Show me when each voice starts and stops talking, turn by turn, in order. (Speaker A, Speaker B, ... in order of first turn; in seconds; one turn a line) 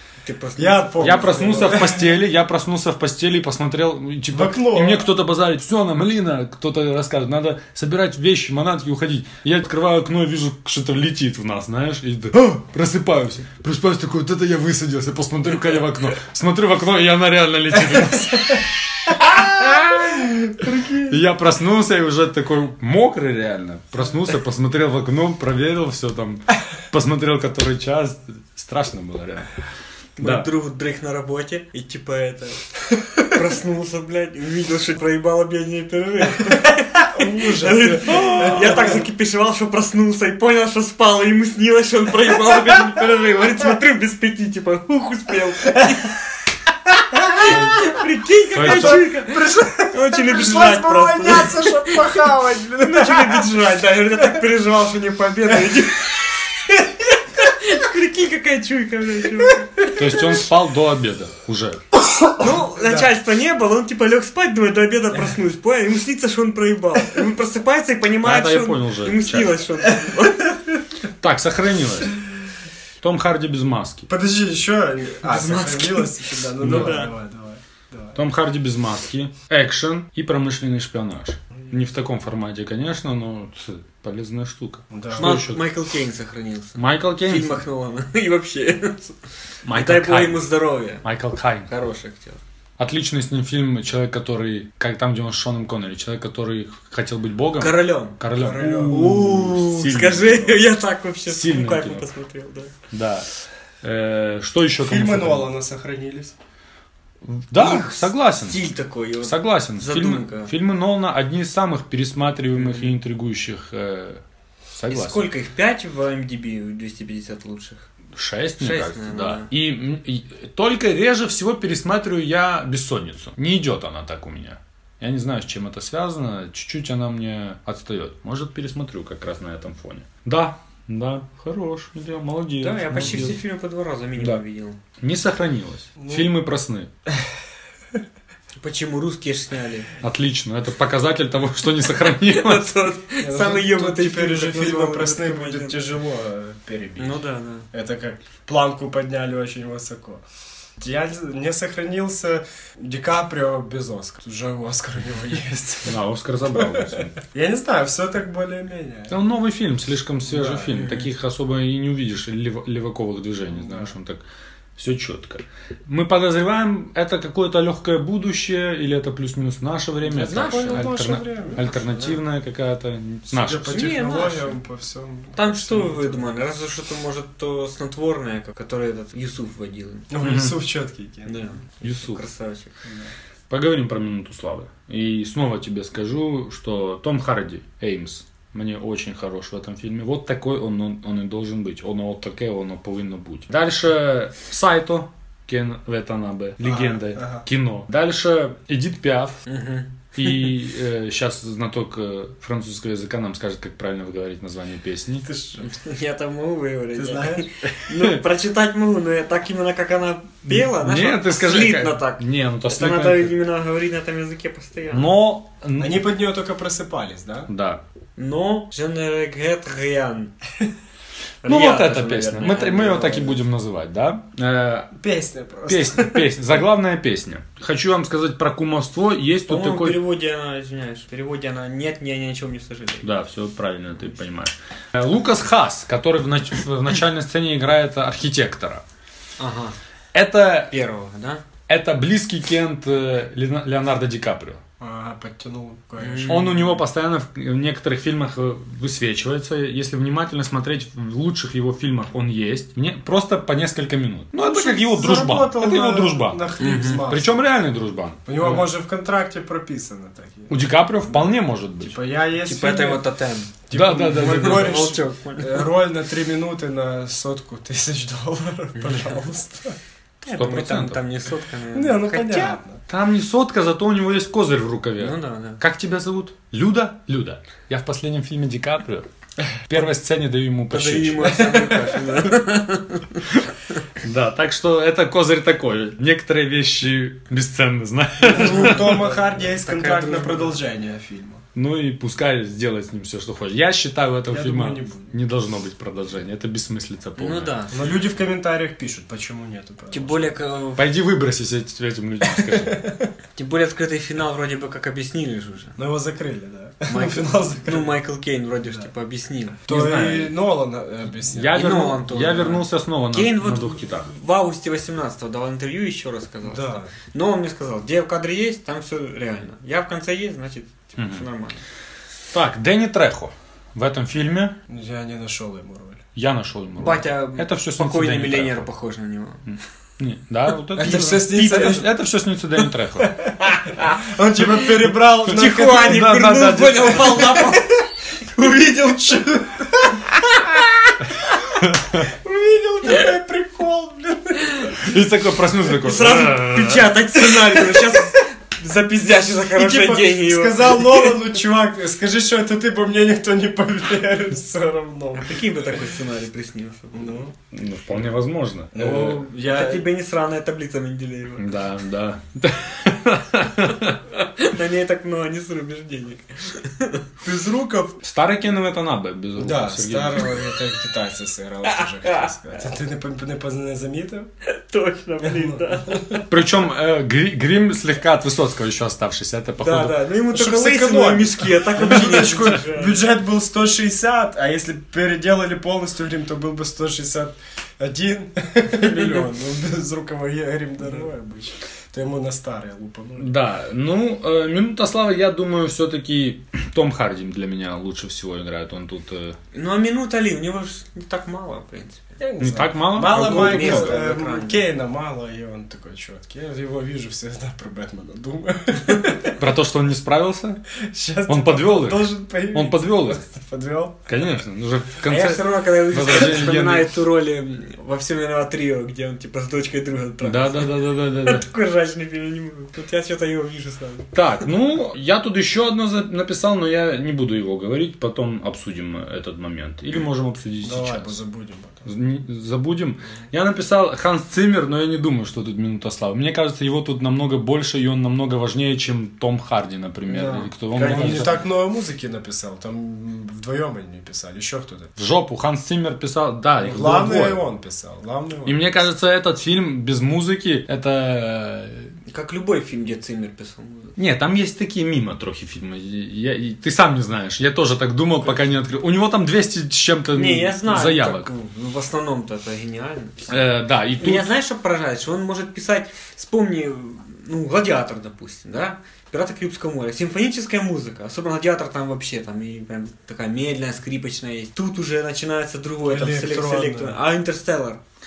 Speaker A: 0.2-1.8
Speaker B: 0.6-2.2
Speaker C: 1.0-29.5
Speaker B: 4.3-5.1
Speaker B: 19.3-21.2
Speaker A: 30.2-32.6
Speaker C: 30.2-30.5
Speaker A: 33.2-46.2
Speaker B: 36.9-38.9
Speaker C: 38.1-38.9
Speaker B: 47.1-47.9
Speaker A: 47.3-52.2
Speaker C: 48.5-49.1
Speaker B: 48.6-54.4
Speaker A: 52.8-56.2
Speaker A: 57.3-59.9
Speaker C: 59.8-61.8
Speaker A: 62.4-70.5
Speaker B: 62.8-63.1
Speaker C: 68.2-69.5
Speaker C: 71.2-72.2
Speaker C: 73.0-74.1
Speaker B: 74.1-78.2
Speaker A: 75.2-77.1
Speaker C: 76.6-77.0
Speaker C: 78.1-85.6
Speaker B: 84.9-85.4
Speaker A: 85.1-89.2
Speaker C: 86.8-87.6
Speaker C: 89.6-90.5
Speaker A: 89.7-91.0
Speaker C: 91.0-91.7
Speaker A: 91.7-92.4
Speaker C: 92.8-100.7
Speaker A: 97.6-102.7
Speaker B: 98.5-99.2
Speaker C: 101.3-102.0
Speaker C: 102.9-103.3
Speaker C: 103.8-105.5
Speaker B: 104.8-106.3
Speaker C: 107.2-108.6
Speaker A: 107.5-110.5
Speaker C: 109.2-114.2
Speaker A: 112.5-112.9
Speaker C: 114.7-115.3
Speaker A: 114.9-117.9
Speaker C: 118.1-133.4
Speaker A: 118.6-119.5
Speaker A: 132.6-134.8
Speaker C: 135.0-136.9
Speaker B: 136.0-136.3
Speaker A: 138.6-139.9
Speaker C: 140.0-142.8
Speaker A: 142.0-145.8
Speaker B: 143.2-150.2
Speaker A: 147.0-147.7
Speaker B: 150.8-156.0
Speaker C: 155.8-157.2
Speaker B: 156.5-159.2
Speaker C: 159.1-164.2
Speaker B: 160.2-160.9
Speaker A: 160.7-161.1
Speaker B: 163.5-163.9
Speaker C: 164.8-173.8
Speaker B: 170.1-172.1
Speaker A: 170.1-170.9
Speaker A: 171.7-172.1
Speaker B: 173.3-176.4
Speaker A: 173.7-174.6
Speaker A: 175.3-180.1
Speaker B: 180.1-181.5
Speaker C: 180.2-180.6
Speaker A: 181.2-182.7
Speaker C: 181.8-182.2
Speaker C: 183.5-199.4
Speaker B: 196.6-197.4
Speaker A: 199.4-200.4
Speaker C: 200.1-205.3
Speaker B: 205.2-205.7
Speaker A: 205.6-215.1
Speaker B: 206.9-207.5
Speaker C: 207.7-208.2
Speaker C: 210.4-213.3
Speaker C: 214.9-216.1
Speaker B: 215.8-217.5
Speaker C: 217.5-217.8
Speaker A: 218.2-220.3
Speaker A: 221.4-223.4
Speaker C: 221.4-224.9
Speaker B: 225.0-226.5
Speaker C: 225.7-230.0
Speaker A: 229.5-233.1
Speaker C: 233.0-238.8
Speaker A: 239.4-239.8
Speaker C: 240.1-240.7
Speaker A: 240.7-241.4
Speaker C: 241.7-244.6
Speaker B: 244.8-246.8
Speaker A: 246.0-246.5
Speaker C: 246.3-258.7
Speaker B: 254.4-257.5
Speaker A: 256.6-257.0
Speaker B: 258.2-263.0
Speaker C: 260.5-262.0
Speaker A: 262.4-263.5
Speaker B: 263.7-269.8
Speaker C: 263.7-264.9
Speaker A: 264.1-265.7
Speaker A: 268.8-269.2
Speaker A: 270.2-272.6
Speaker C: 270.3-271.0
Speaker B: 271.7-272.8
Speaker C: 272.9-279.1
Speaker A: 275.0-275.6
Speaker C: 279.7-281.5
Speaker A: 280.7-283.3
Speaker B: 281.2-282.0
Speaker C: 284.0-288.9
Speaker B: 288.2-291.4
Speaker A: 288.3-290.6
Speaker C: 291.5-297.5
Speaker B: 294.3-295.1
Speaker A: 297.2-297.9
Speaker B: 297.7-300.4
Speaker A: 299.9-300.8
Speaker C: 300.8-302.8
Speaker B: 302.2-303.1
Speaker A: 303.4-305.8
Speaker B: 305.8-307.9
Speaker A: 306.9-309.6
Speaker B: 309.7-311.7
Speaker C: 309.7-310.3
Speaker C: 311.3-314.1
Speaker A: 311.5-321.6
Speaker B: 316.4-316.9
Speaker C: 321.0-321.2
Speaker C: 322.3-324.6
Speaker B: 324.7-326.0
Speaker C: 326.1-328.7
Speaker A: 326.8-329.4
Speaker C: 329.5-333.1
Speaker B: 330.8-331.9
Speaker A: 330.8-331.3
Speaker B: 333.0-333.3
Speaker A: 333.5-334.0
Speaker B: 333.9-336.1
Speaker A: 335.2-337.8
Speaker C: 335.4-337.4
Speaker B: 337.1-337.5
Speaker B: 338.3-340.6
Speaker C: 341.6-342.1
Speaker B: 342.0-344.8
Speaker C: 344.8-346.9
Speaker A: 345.8-351.1
Speaker B: 347.3-348.0
Speaker B: 349.4-355.4
Speaker A: 355.1-357.2
Speaker B: 356.9-357.3
Speaker C: 357.5-359.2
Speaker B: 358.7-359.9
Speaker A: 358.8-361.5
Speaker C: 361.4-364.0
Speaker A: 364.2-367.0
Speaker B: 367.2-368.0
Speaker C: 368.0-370.4
Speaker B: 369.4-374.3
Speaker A: 371.7-372.3
Speaker A: 374.4-376.2
Speaker B: 375.2-376.0
Speaker C: 376.3-380.0
Speaker A: 379.6-383.0
Speaker B: 380.3-393.4
Speaker A: 388.8-389.2
Speaker C: 393.2-399.4
Speaker A: 399.5-402.0
Speaker B: 402.2-409.3
Speaker C: 402.4-404.0
Speaker A: 403.1-404.6
Speaker C: 409.4-410.6
Speaker B: 410.8-414.1
Speaker C: 411.3-413.2
Speaker C: 414.1-417.0
Speaker A: 415.0-424.1
Speaker C: 420.2-421.4
Speaker C: 424.1-431.2
Speaker B: 430.6-431.9
Speaker C: 431.9-441.3
Speaker B: 440.1-444.9
Speaker A: 440.7-441.3
Speaker C: 445.0-447.4
Speaker B: 446.6-448.8
Speaker C: 448.4-451.9
Speaker A: 452.1-453.9
Speaker C: 454.0-461.3
Speaker B: 458.2-458.5
Speaker A: 460.1-477.8
Speaker C: 463.3-464.3
Speaker B: 475.8-477.0